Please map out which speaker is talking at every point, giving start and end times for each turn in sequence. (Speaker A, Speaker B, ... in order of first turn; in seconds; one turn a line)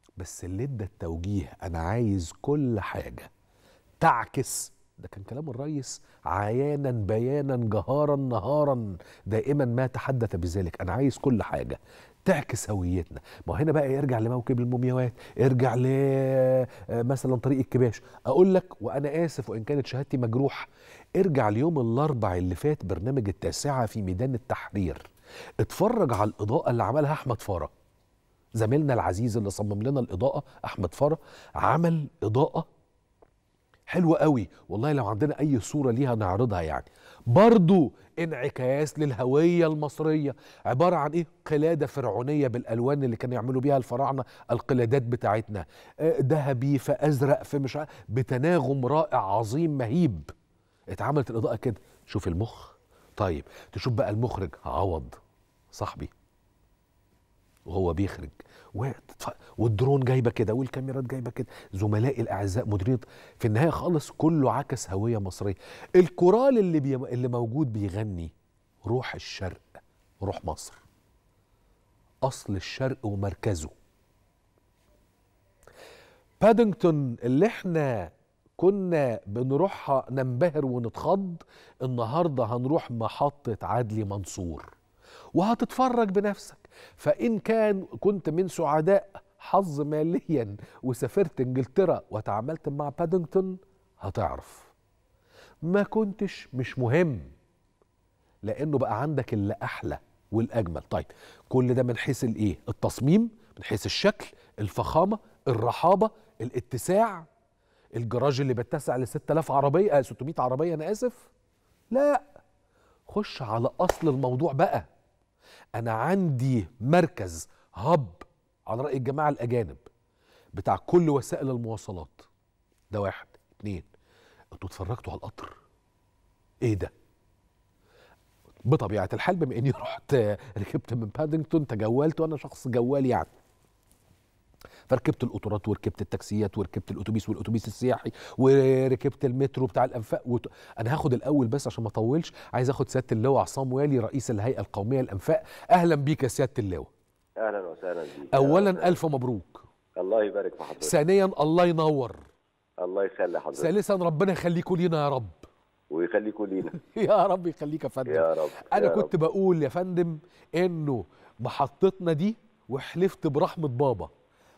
Speaker A: 0.2-3.3
Speaker A: 4.0-20.6
Speaker A: 21.2-25.0
Speaker A: 25.6-27.7
Speaker A: 28.6-32.7
Speaker A: 33.9-50.3
Speaker A: 50.9-55.1
Speaker A: 55.7-56.1
Speaker A: 57.7-68.3
Speaker A: 68.8-70.8
Speaker A: 72.2-73.7
Speaker A: 76.4-84.7
Speaker A: 85.3-94.7
Speaker A: 95.7-97.3
Speaker A: 98.4-107.2
Speaker A: 108.0-111.3
Speaker A: 111.9-112.2
Speaker A: 113.1-114.8
Speaker A: 115.8-119.8
Speaker A: 120.6-122.3
Speaker A: 122.9-123.9
Speaker A: 124.5-125.6
Speaker A: 126.6-126.9
Speaker A: 128.7-133.3
Speaker A: 134.9-146.9
Speaker B: 147.4-148.9
Speaker A: 148.3-149.6
Speaker B: 150.0-150.9
Speaker A: 150.8-152.2
Speaker B: 152.8-153.7
Speaker A: 153.5-155.4
Speaker B: 155.9-156.7
Speaker A: 156.8-164.1
Speaker B: 158.1-159.1